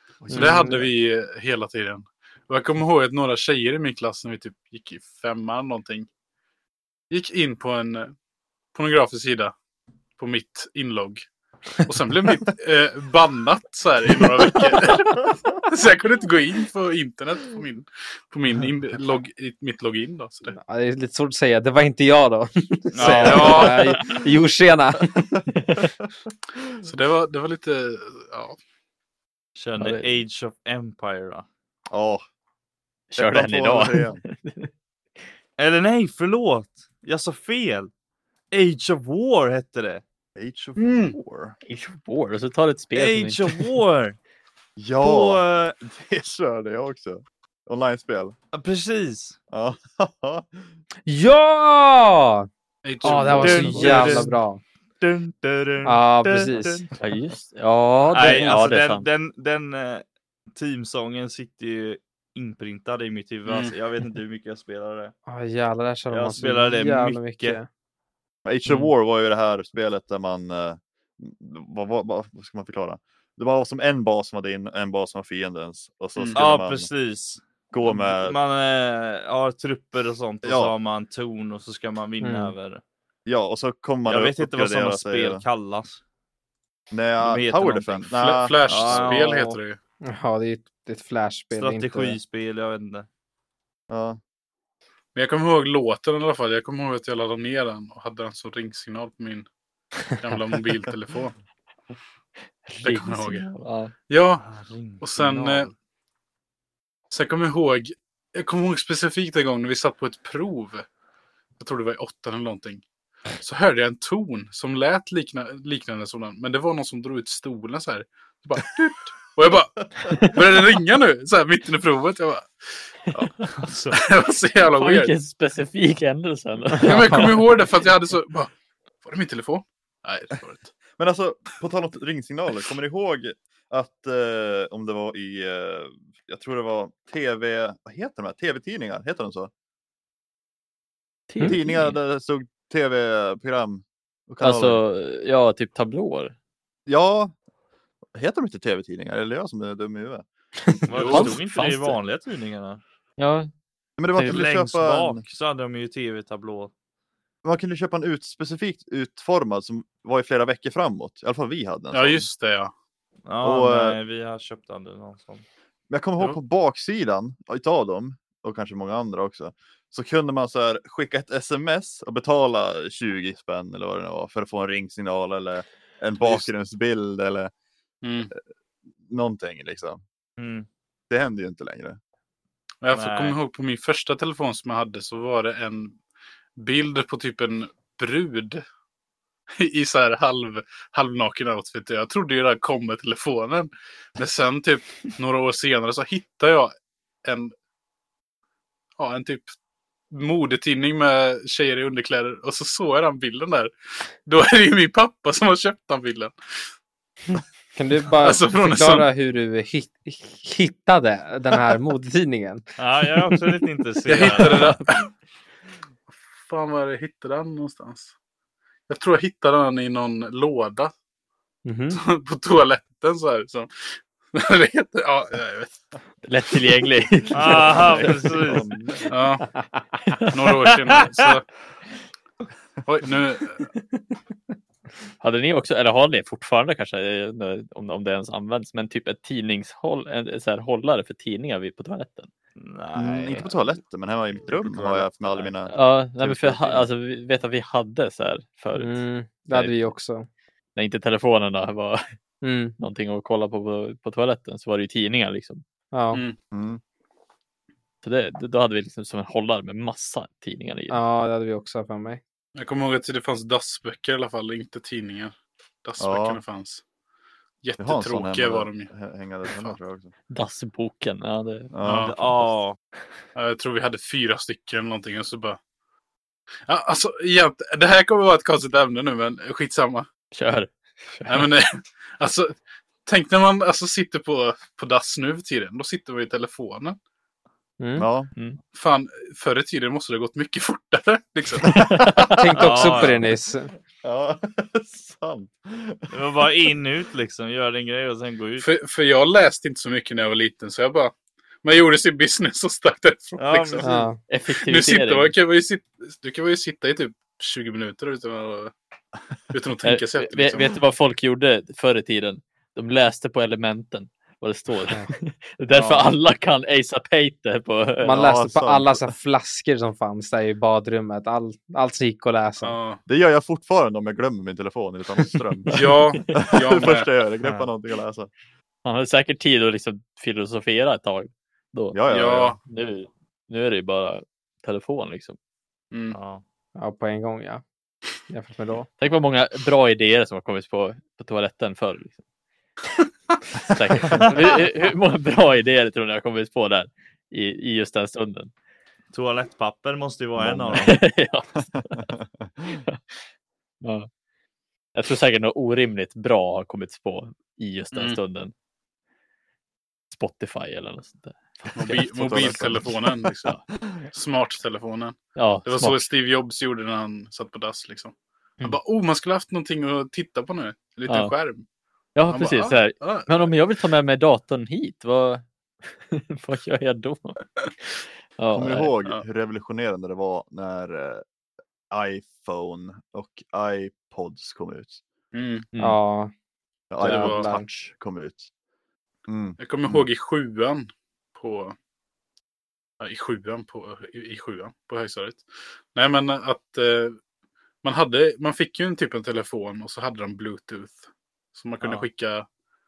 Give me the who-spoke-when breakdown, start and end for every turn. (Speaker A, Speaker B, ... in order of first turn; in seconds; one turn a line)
Speaker A: 0.2-0.7
Speaker B: 0.3-6.1
Speaker C: 0.3-0.9
Speaker B: 7.1-8.1
Speaker B: 8.7-9.5
Speaker B: 10.2-11.2
Speaker B: 11.8-20.5
Speaker C: 20.6-25.3
Speaker D: 22.9-23.7
Speaker E: 23.1-23.8
Speaker B: 23.1-24.1
Speaker A: 25.1-26.0
Speaker E: 25.6-25.9
Speaker B: 26.8-28.6
Speaker D: 29.6-31.4
Speaker E: 29.8-30.1
Speaker A: 31.9-32.2
Speaker E: 33.1-34.7
Speaker A: 33.1-34.2
Speaker D: 35.6-37.9
Speaker D: 38.5-40.0
Speaker A: 40.4-41.5
Speaker B: 40.8-41.1
Speaker E: 41.6-43.8
Speaker D: 42.9-44.2
Speaker A: 44.8-48.3
Speaker D: 45.0-45.8
Speaker D: 48.5-49.4
Speaker A: 49.5-50.7
Speaker C: 51.1-52.5
Speaker B: 52.8-54.2
Speaker C: 53.0-54.6
Speaker E: 53.1-54.3
Speaker D: 53.4-54.3
Speaker D: 55.0-56.9
Speaker C: 55.8-56.9
Speaker E: 57.0-59.0
Speaker D: 58.1-65.1
Speaker C: 58.2-58.5
Speaker B: 63.5-63.7
Speaker C: 65.2-67.7
Speaker D: 66.1-67.6
Speaker A: 68.4-76.9
Speaker D: 76.3-82.8
Speaker A: 77.7-78.4
Speaker A: 80.4-80.7
Speaker C: 82.2-82.5
Speaker A: 83.2-85.4
Speaker D: 84.0-86.0
Speaker A: 86.9-89.1
Speaker D: 87.2-89.5
Speaker B: 88.1-89.8
Speaker C: 89.2-89.5
Speaker C: 90.0-92.2
Speaker D: 91.5-93.1
Speaker A: 93.9-94.2
Speaker B: 95.1-99.5
Speaker B: 100.2-101.3
Speaker E: 102.7-103.9
Speaker B: 102.8-103.5
Speaker B: 104.1-104.4
Speaker D: 104.4-105.7
Speaker B: 105.0-105.7
Speaker B: 107.1-110.9
Speaker B: 111.6-112.8
Speaker B: 113.4-123.3
Speaker D: 123.6-124.0
Speaker B: 123.9-125.1
Speaker E: 124.7-127.5
Speaker B: 126.8-130.7
Speaker C: 126.9-127.4
Speaker A: 131.0-139.5
Speaker E: 141.3-141.9
Speaker A: 141.4-144.8
Speaker E: 144.4-146.3
Speaker A: 146.8-147.3
Speaker A: 148.1-150.2
Speaker D: 150.9-152.8
Speaker B: 150.9-151.3
Speaker E: 151.0-152.0
Speaker E: 153.2-153.5
Speaker A: 154.0-155.2
Speaker D: 154.2-156.7
Speaker A: 157.4-162.3
Speaker B: 161.9-162.7
Speaker D: 163.2-165.4
Speaker A: 163.4-164.0
Speaker A: 165.9-177.5
Speaker B: 178.0-178.3
Speaker A: 179.1-180.0
Speaker D: 180.4-180.7
Speaker A: 181.1-182.0
Speaker B: 182.8-186.0
Speaker D: 182.9-183.4
Speaker B: 186.6-188.6
Speaker B: 189.6-197.5
Speaker B: 199.0-199.5
Speaker B: 200.1-203.7
Speaker B: 204.2-206.7
Speaker C: 207.8-212.6
Speaker B: 208.2-209.1
Speaker D: 212.8-214.8
Speaker B: 214.1-215.1
Speaker C: 214.2-214.5
Speaker B: 216.1-218.1
Speaker B: 218.9-220.9
Speaker C: 221.6-222.0
Speaker B: 221.9-225.8
Speaker E: 226.2-228.6
Speaker D: 227.3-228.6
Speaker A: 227.4-229.1
Speaker B: 229.1-229.4
Speaker C: 229.5-230.2
Speaker E: 230.1-230.9
Speaker B: 230.3-231.4
Speaker B: 232.8-233.7
Speaker E: 233.7-234.0
Speaker E: 235.2-242.3
Speaker D: 242.6-243.5
Speaker A: 242.9-246.9
Speaker E: 244.8-249.8
Speaker C: 248.8-250.3
Speaker E: 250.8-252.2
Speaker C: 252.4-252.7
Speaker E: 252.8-255.6
Speaker C: 255.9-256.2
Speaker A: 256.5-256.8
Speaker E: 258.0-261.0
Speaker C: 260.9-262.2
Speaker B: 262.6-266.8
Speaker A: 266.0-266.4
Speaker B: 267.6-268.9
Speaker A: 267.8-270.1
Speaker B: 269.5-269.8
Speaker E: 270.3-271.7
Speaker A: 271.7-272.1
Speaker B: 271.8-272.1
Speaker D: 271.9-272.8
Speaker B: 273.3-275.6
Speaker B: 276.7-280.1
Speaker E: 280.3-281.5
Speaker B: 281.2-287.0
Speaker C: 287.8-288.1
Speaker A: 288.0-288.3
Speaker E: 288.3-288.6
Speaker B: 288.7-291.8
Speaker A: 291.7-293.2
Speaker E: 291.7-292.4
Speaker C: 292.3-293.7
Speaker D: 292.6-293.2
Speaker A: 294.0-296.1
Speaker D: 296.1-298.6
Speaker B: 298.6-308.7
Speaker D: 303.4-303.9
Speaker C: 303.8-304.2
Speaker E: 304.3-305.3
Speaker B: 309.5-310.8
Speaker E: 309.8-318.2
Speaker B: 315.7-316.1
Speaker C: 318.0-322.8
Speaker A: 318.1-319.1
Speaker B: 322.6-323.0
Speaker A: 323.1-328.3
Speaker E: 325.7-326.5
Speaker B: 325.7-327.1
Speaker E: 328.8-332.0
Speaker A: 331.9-332.6
Speaker B: 332.1-332.6
Speaker E: 332.6-335.4
Speaker B: 335.9-336.2
Speaker D: 336.1-336.4
Speaker C: 336.8-337.6
Speaker C: 338.3-338.9
Speaker E: 339.0-342.2
Speaker E: 343.6-348.5
Speaker D: 349.1-351.0
Speaker A: 350.4-350.9
Speaker E: 350.8-352.1
Speaker A: 351.7-352.8
Speaker E: 353.8-354.1
Speaker E: 354.9-358.5
Speaker B: 357.9-358.2
Speaker E: 360.1-362.9
Speaker B: 361.7-363.6
Speaker A: 361.9-363.0
Speaker B: 364.1-371.6
Speaker E: 365.4-366.1
Speaker E: 371.1-371.3
Speaker E: 372.1-378.9
Speaker B: 372.3-373.5
Speaker A: 378.5-381.2
Speaker A: 381.9-385.0
Speaker B: 385.3-385.7
Speaker C: 385.8-386.3
Speaker A: 386.9-388.5
Speaker B: 387.0-387.5
Speaker C: 387.0-387.6
Speaker A: 389.3-390.1
Speaker B: 389.6-391.7
Speaker B: 393.0-397.2
Speaker B: 397.8-402.5